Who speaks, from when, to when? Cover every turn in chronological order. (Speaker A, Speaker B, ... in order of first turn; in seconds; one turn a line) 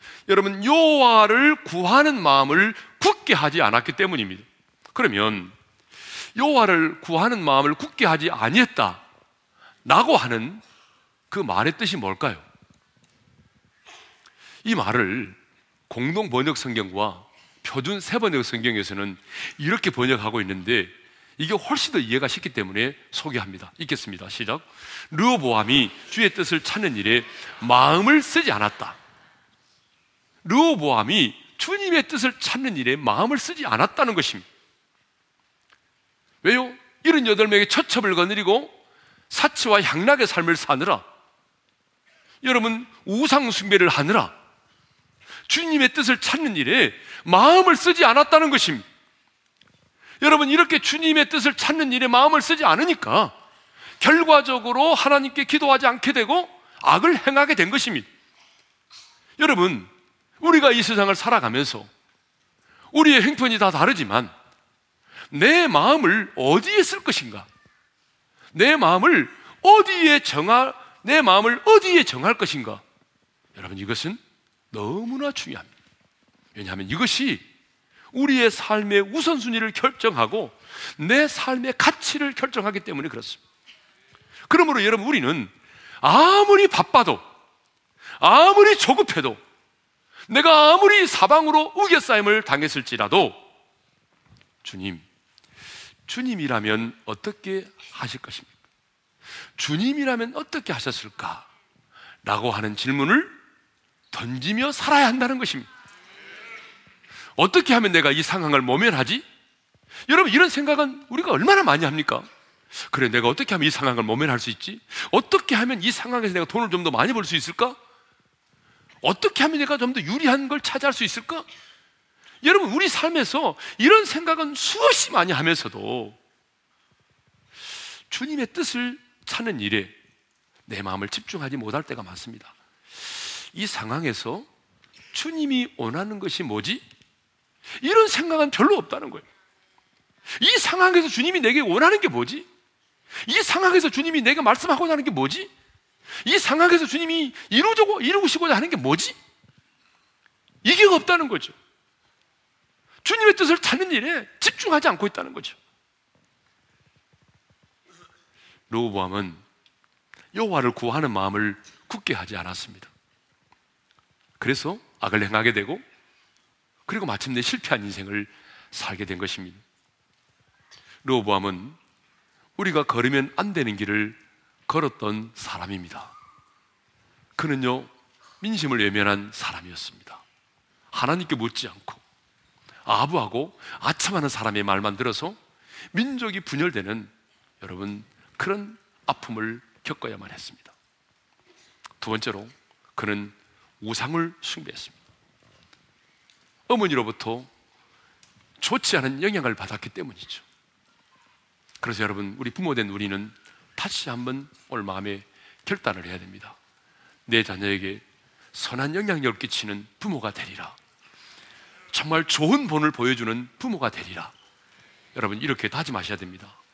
Speaker A: 0.3-5.5
Speaker A: 6.3-9.0
Speaker A: 9.8-10.6
Speaker A: 11.3-12.4
Speaker A: 14.6-15.4
Speaker A: 15.9-29.0
Speaker A: 30.4-34.4
Speaker A: 36.4-38.7
Speaker A: 39.3-41.0
Speaker A: 42.4-44.3
Speaker A: 45.5-48.8
Speaker A: 50.2-53.3
Speaker A: 54.0-58.1
Speaker A: 59.4-59.9
Speaker A: 60.4-61.9
Speaker A: 62.9-64.3
Speaker A: 65.3-67.5
Speaker A: 68.5-72.8
Speaker A: 73.5-74.2
Speaker A: 74.7-75.7
Speaker A: 76.5-77.4
Speaker A: 78.1-83.4
Speaker A: 84.5-87.2
Speaker A: 88.2-89.4
Speaker A: 90.3-93.4
Speaker A: 94.6-95.0
Speaker A: 96.1-98.5
Speaker A: 99.6-101.5
Speaker A: 102.2-103.3
Speaker A: 104.1-105.7
Speaker A: 107.4-109.2
Speaker A: 110.1-117.8
Speaker A: 119.0-121.4
Speaker A: 122.4-126.2
Speaker A: 128.1-129.9
Speaker A: 130.7-132.5
Speaker A: 133.0-134.5
Speaker A: 135.1-136.8
Speaker A: 137.8-139.2
Speaker A: 140.3-142.4
Speaker A: 143.2-145.5
Speaker A: 146.2-149.2
Speaker A: 150.6-151.5
Speaker A: 153.0-155.6
Speaker A: 158.7-159.4
Speaker A: 160.3-162.9
Speaker A: 164.4-165.8
Speaker A: 166.8-169.6
Speaker A: 171.0-171.8
Speaker A: 172.6-176.1
Speaker A: 177.4-177.9
Speaker A: 178.4-180.2
Speaker A: 180.9-182.0
Speaker A: 182.8-185.4
Speaker A: 185.9-190.7
Speaker A: 192.0-194.9
Speaker A: 196.7-197.5
Speaker A: 198.6-200.4
Speaker A: 201.8-206.6
Speaker A: 207.2-208.0
Speaker A: 208.5-210.8
Speaker A: 211.9-214.3
Speaker A: 215.1-216.6